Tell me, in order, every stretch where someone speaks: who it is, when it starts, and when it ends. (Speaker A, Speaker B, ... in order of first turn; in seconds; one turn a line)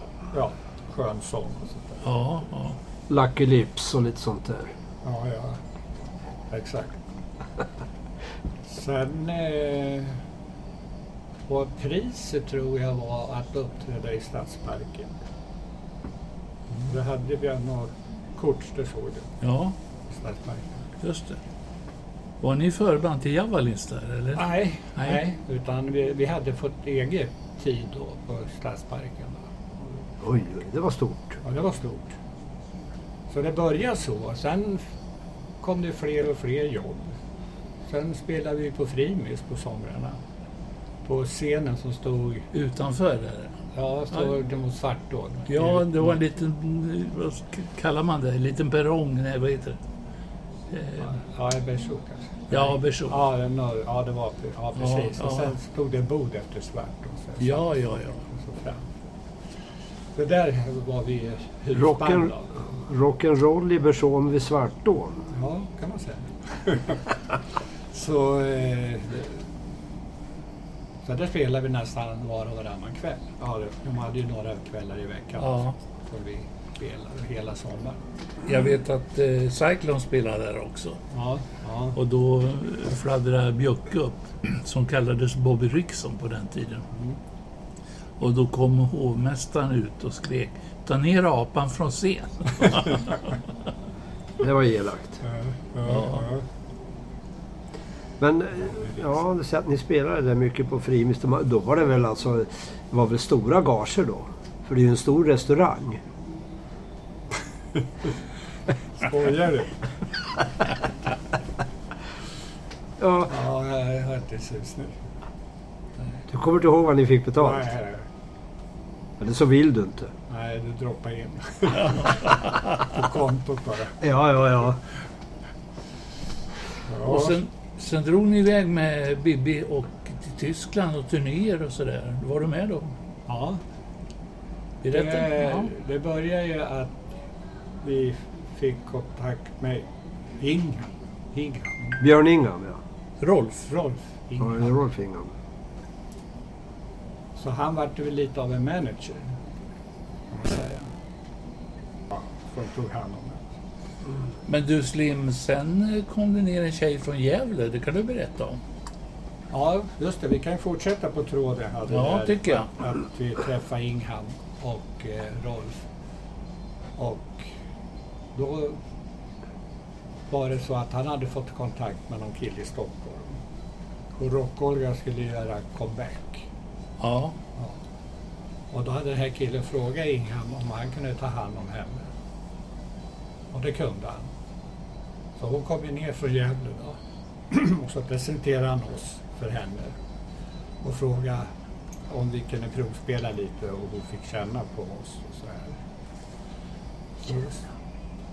Speaker A: 0.3-2.1
Speaker B: 2.0-2.8
Speaker C: 3.1-4.7
Speaker A: 5.0-5.6
Speaker A: 6.5-7.0
Speaker A: 8.7-10.2
Speaker A: 11.5-15.2
Speaker A: 16.9-19.3
Speaker B: 19.4-19.7
Speaker A: 20.1-20.9
Speaker B: 21.0-21.4
Speaker B: 22.4-25.2
Speaker A: 24.4-29.9
Speaker C: 30.2-31.4
Speaker A: 31.4-32.1
Speaker A: 33.3-34.9
Speaker A: 35.6-37.1
Speaker A: 37.9-40.2
Speaker A: 41.0-42.5
Speaker B: 42.5-43.5
Speaker A: 43.7-46.2
Speaker B: 45.5-49.8
Speaker B: 50.7-51.1
Speaker A: 51.0-59.1
Speaker B: 52.5-53.2
Speaker B: 54.8-55.5
Speaker B: 57.4-58.2
Speaker A: 60.1-62.6
Speaker C: 61.8-62.3
Speaker C: 62.8-65.3
Speaker A: 65.3-67.0
Speaker A: 67.9-69.5
Speaker A: 71.0-78.0
Speaker B: 75.4-75.7
Speaker B: 78.5-81.0
Speaker A: 81.1-82.0
Speaker B: 82.0-86.9
Speaker B: 88.2-93.2
Speaker C: 94.4-95.2
Speaker A: 95.2-96.4
Speaker B: 95.9-96.2
Speaker C: 98.2-106.0
Speaker A: 109.0-109.9
Speaker C: 113.0-113.3
Speaker A: 113.3-115.0
Speaker C: 116.3-117.7
Speaker A: 117.4-118.0
Speaker C: 119.2-120.1
Speaker A: 120.3-124.0
Speaker B: 121.8-122.6
Speaker C: 124.0-124.8
Speaker A: 126.9-127.4
Speaker B: 127.1-132.9
Speaker A: 133.3-133.6
Speaker B: 134.8-135.7
Speaker A: 134.9-137.2
Speaker A: 137.8-139.9
Speaker A: 140.4-142.0
Speaker C: 142.0-142.8
Speaker B: 143.2-143.7
Speaker A: 143.7-144.8
Speaker C: 144.4-145.3
Speaker A: 147.4-149.3
Speaker A: 150.3-150.9
Speaker A: 152.1-153.5
Speaker B: 154.5-158.6
Speaker A: 159.5-165.8
Speaker B: 161.9-162.7
Speaker A: 167.0-167.5
Speaker A: 168.3-168.8
Speaker A: 170.3-173.4
Speaker A: 174.2-176.4
Speaker B: 177.0-177.4
Speaker A: 178.7-182.1
Speaker A: 183.5-184.3
Speaker A: 185.4-187.0
Speaker A: 187.5-189.9
Speaker A: 190.8-191.5
Speaker A: 192.1-195.8
Speaker A: 197.2-197.6